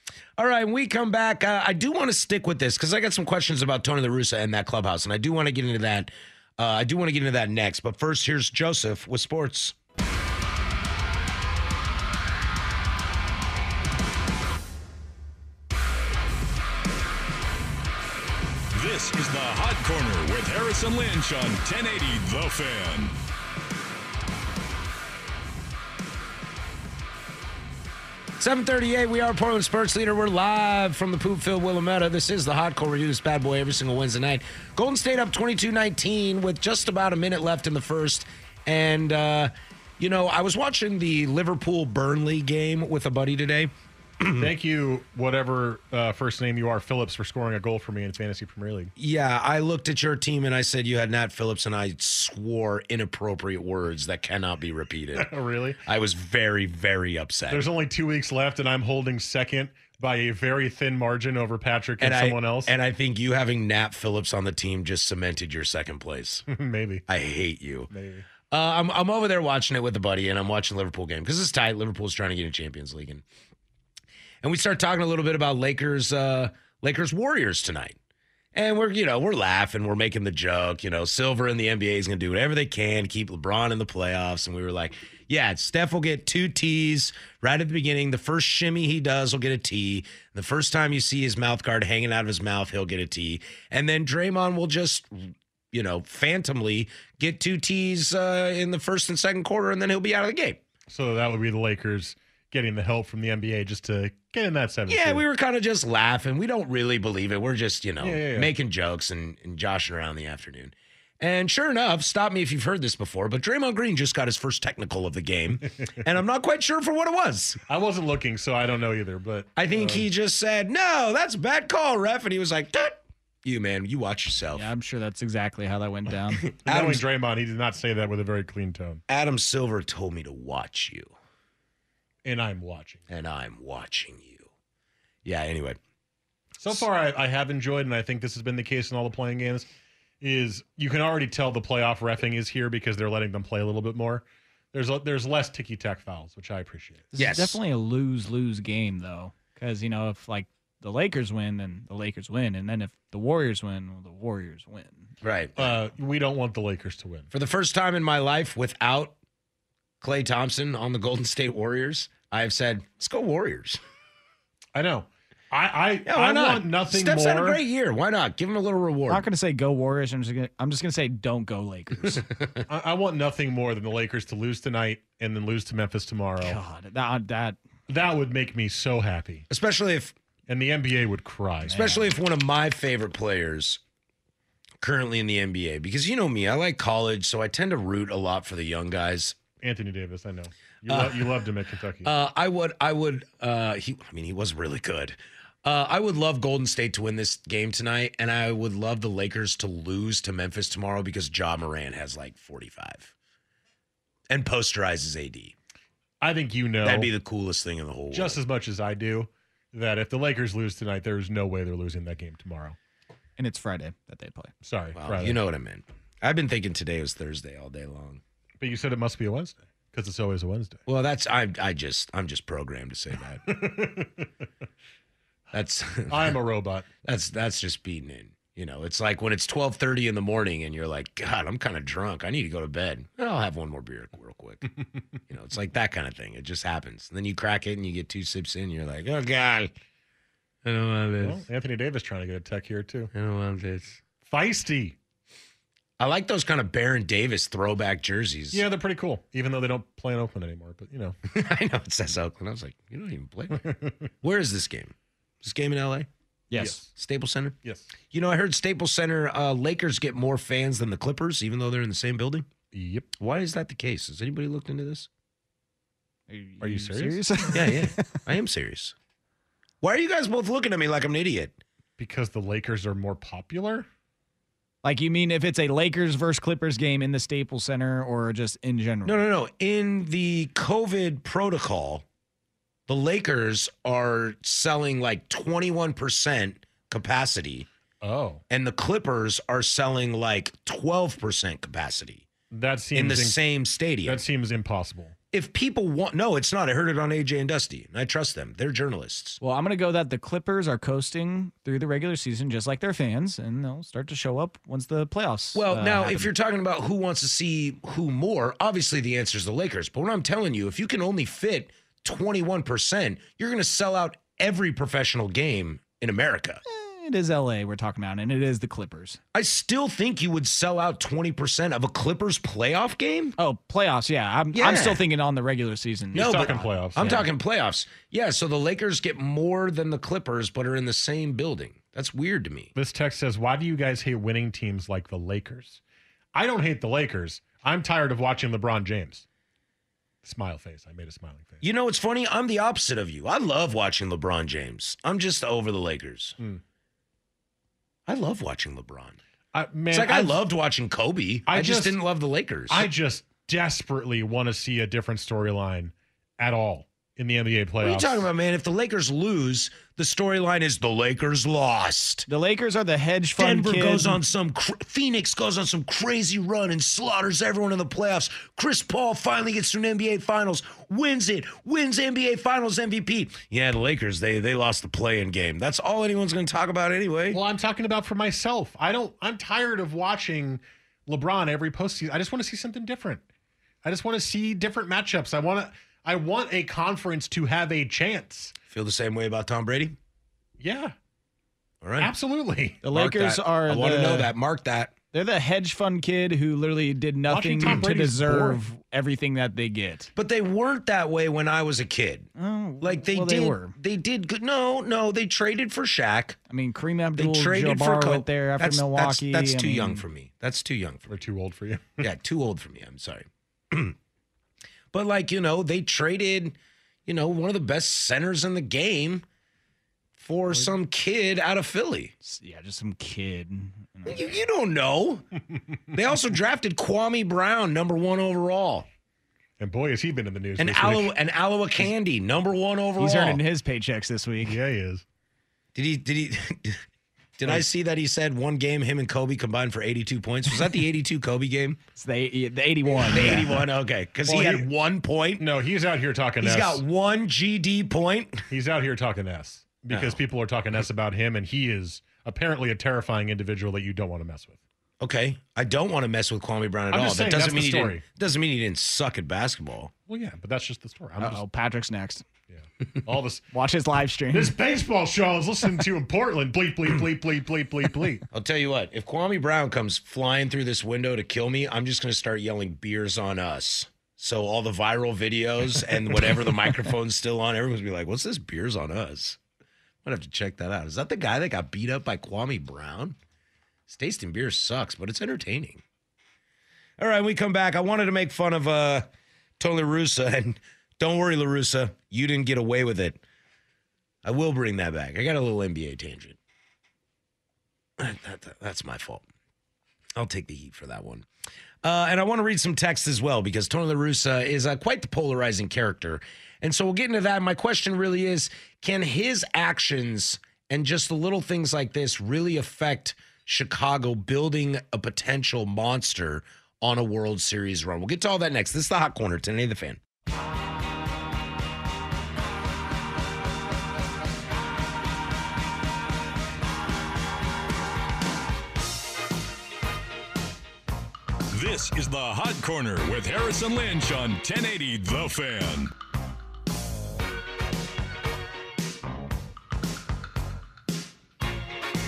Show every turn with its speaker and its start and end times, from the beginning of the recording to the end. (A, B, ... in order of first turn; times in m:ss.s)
0:00.4-0:09.8 A
0:18.7-0:23.1 B
0:28.4-0:44.5 A
0:44.4-0:48.9 C
0:49.0-0:55.3 A
0:55.2-0:55.8 C
0:55.9-0:57.7 A
0:57.5-1:02.7 C
1:02.0-1:06.4 A
1:06.5-1:07.0 C
1:07.1-1:07.9 A
1:07.9-1:08.3 C
1:08.5-1:13.2 A
1:14.4-1:18.0 A
1:18.5-1:40.6 A
1:40.9-1:45.2 C
1:44.9-1:57.6 A
1:48.0-1:48.5 C
1:57.7-2:00.1 C
1:59.6-2:04.7 A
2:04.6-2:06.5 D
2:06.5-2:07.0 A
2:06.6-2:09.0 C
2:09.1-2:11.1 A
2:12.2-2:13.0 C
2:13.1-2:14.5 A
2:15.2-2:15.8 A
2:16.6-2:19.7 C
2:20.2-2:27.0 C
2:27.1-2:35.1 D
2:27.2-2:27.6 A
2:35.2-2:35.7 A
2:35.6-2:37.3 C
2:37.3-2:39.2 A
2:40.0-2:43.8 A
2:44.7-2:47.6 C
2:46.0-2:49.2 A
2:49.1-2:52.2 D
2:52.7-2:56.6 C
2:56.4-2:57.6 D
2:57.9-2:59.5 C
2:59.5-3:00.1 A
3:00.5-3:01.9 C
3:01.6-3:02.0 D
3:01.7-3:03.8 A
3:04.8-3:09.4 A
3:09.6-3:12.1 C
3:10.9-3:11.4 A
3:12.0-3:23.1 A
3:24.3-3:25.6 A
3:26.2-3:27.1 C
3:26.8-3:28.4 A
3:28.1-3:32.8 C
3:33.4-3:34.5 D
3:34.6-3:35.4 C
3:35.0-3:38.2 A
3:38.6-3:40.8 C
3:40.9-3:43.5 A
3:43.5-3:44.3 C
3:45.5-3:46.4 A
3:46.1-3:46.9 C
3:47.0-3:54.7 A
3:55.3-3:59.7 A
4:00.6-4:01.4 A
4:01.2-4:03.1 C
4:03.1-4:04.0 A
4:04.2-4:05.0 C
4:06.0-4:08.6 A
4:08.5-4:11.2 C
4:11.3-4:16.1 A
4:16.5-4:16.8 D
4:16.5-4:16.9 C
4:17.0-4:17.6 A
4:18.1-4:22.5 A
4:22.7-4:23.1 C
4:23.2-4:25.1 A
4:26.3-4:28.1 D
4:26.6-4:27.6 C
4:27.5-4:29.0 A
4:29.8-4:31.6 A
4:32.0-4:33.9 C
4:34.8-4:39.2 D
4:39.0-4:42.0 A
4:42.9-4:47.7 A
4:48.0-4:48.4 C
4:48.5-4:52.3 A
4:52.5-4:53.4 C
4:52.9-4:54.2 A
4:54.0-4:55.2 C
4:55.3-4:59.4 A
4:59.4-5:06.3 D
5:05.6-5:16.6 A
5:16.7-5:19.2 D
5:19.3-5:23.4 A
5:23.4-5:27.2 D
5:24.5-5:25.0 A
5:26.1-5:32.7 A
5:26.2-5:27.2 C
5:32.8-5:35.8 C
5:36.3-5:39.2 C
5:40.2-5:41.6 C
5:41.6-5:46.4 A
5:48.1-5:49.2 A
5:49.5-5:50.4 C
5:49.9-5:52.9 A
5:51.5-5:52.0 C
5:52.7-5:58.3 C
5:57.8-6:02.3 A
6:02.3-6:04.2 D
6:03.4-6:17.4 A
6:17.3-6:23.2 C
6:23.8-6:28.6 C
6:28.7-6:30.0 A
6:30.6-6:31.0 C
6:31.8-6:32.1 A
6:32.0-6:32.8 C
6:32.8-6:34.3 D
6:32.9-6:34.9 A
6:35.1-6:40.1 D
6:37.3-6:38.6 C
6:40.2-6:42.3 A
6:42.4-6:43.7 D
6:42.8-6:46.4 A
6:46.5-6:50.0 D
6:47.2-6:51.1 A
6:51.1-6:52.0 C
6:52.0-6:54.0 A
6:54.9-6:59.2 A
7:00.2-7:02.1 A
7:02.2-7:04.3 D
7:04.1-7:05.2 A
7:05.9-7:08.9 A
7:09.6-7:11.1 C
7:10.6-7:13.4 A
7:13.0-7:14.6 D
7:14.4-7:15.0 C
7:15.8-7:16.8 A
7:17.4-7:21.8 A
7:22.0-7:23.5 D
7:23.1-7:23.4 C
7:23.1-7:25.4 A
7:24.3-7:24.7 C
7:25.4-7:26.8 C
7:26.4-7:28.5 A
7:28.5-7:34.6 C
7:29.9-7:30.2 A
7:35.0-7:39.9 A
7:36.9-7:38.0 C
7:40.1-7:41.4 C
7:41.2-7:42.2 D
7:42.5-7:43.4 C
7:43.5-7:44.6 D
7:44.3-7:48.2 C
7:48.3-7:59.4 A
8:00.0-8:03.2 A
8:03.9-8:05.8 A
8:07.0-8:09.1 A
8:09.6-8:13.2 A
8:14.2-8:16.4 A
8:18.0-8:19.3 A
8:20.2-8:21.3 A
8:21.8-8:40.0 A
8:51.5-8:55.9 B